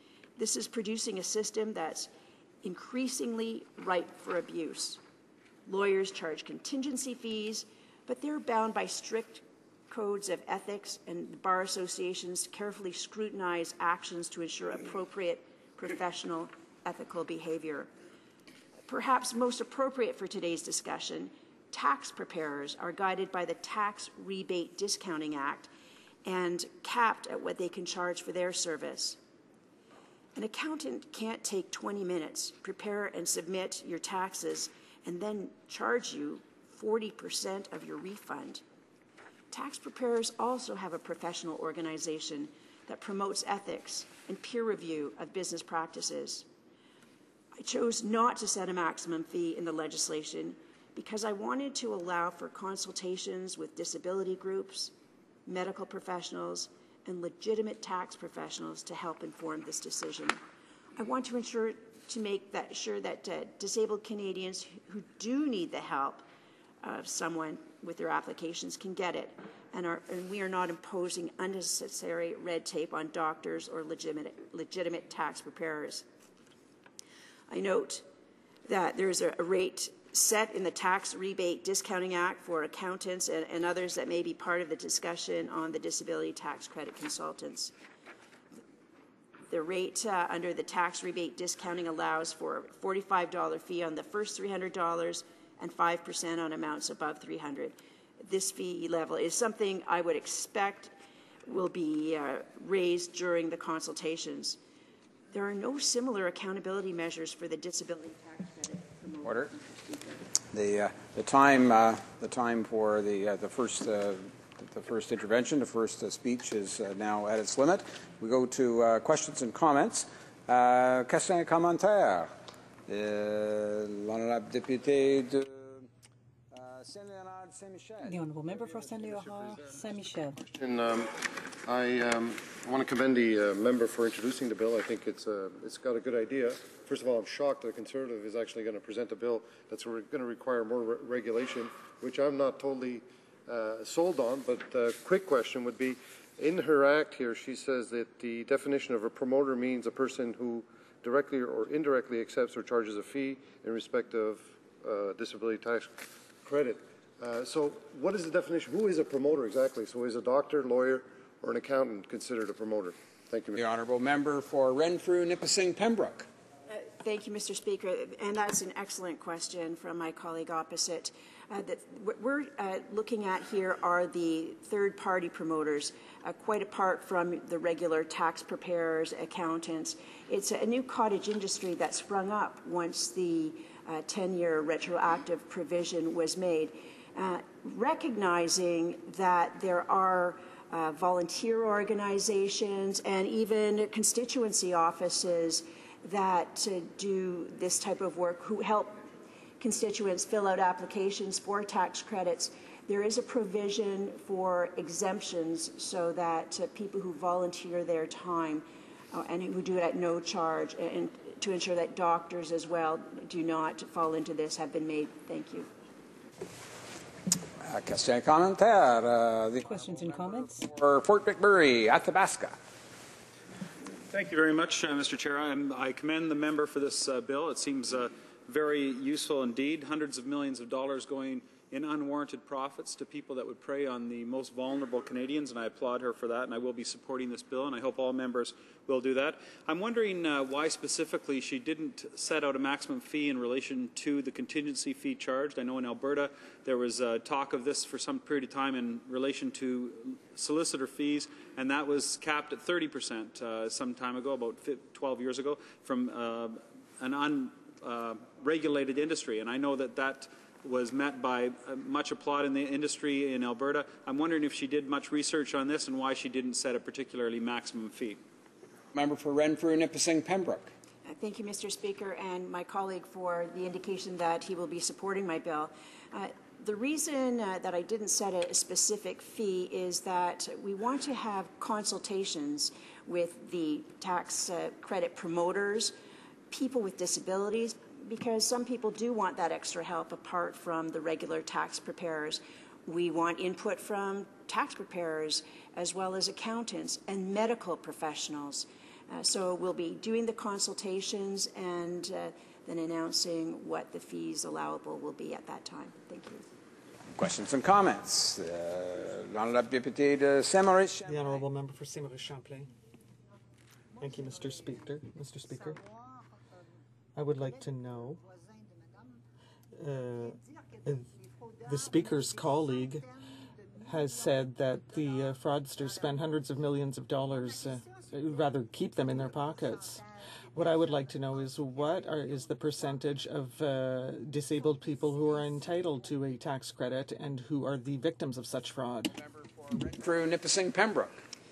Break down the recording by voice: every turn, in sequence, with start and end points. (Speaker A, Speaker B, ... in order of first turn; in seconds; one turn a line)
Speaker A: 0.4-2.1
Speaker A: 2.6-5.0
Speaker A: 5.7-17.9
Speaker A: 18.9-25.7
Speaker A: 26.2-29.2
Speaker A: 30.3-38.6
Speaker A: 39.5-46.5
Speaker A: 47.6-54.9
Speaker A: 55.5-60.4
Speaker A: 61.0-66.2
Speaker A: 66.8-76.0
Speaker A: 77.5-78.0
Speaker A: 78.7-87.7
Speaker A: 89.5-100.9
Speaker A: 101.4-104.6
Speaker A: 105.3-110.1
Speaker B: 110.5-122.3
Speaker B: 122.9-125.9
Speaker B: 126.5-128.2
Speaker C: 128.0-130.4
Speaker D: 130.4-163.6
Speaker B: 163.6-166.3
Speaker A: 166.7-199.0
Speaker A: 199.6-215.7
Speaker B: 217.6-219.8
Speaker C: 219.6-220.7
Speaker B: 220.6-222.6
Speaker E: 224.1-268.2
Speaker B: 268.9-270.7
Speaker A: 271.0-285.9
Speaker A: 286.5-306.4
Speaker B: 307.1-311.2
Speaker F: 311.1-312.7
Speaker F: 314.0-315.8
Speaker F: 317.1-318.2
Speaker F: 319.8-321.1
Speaker F: 321.6-323.1
Speaker F: 323.9-339.1
Speaker B: 339.2-341.2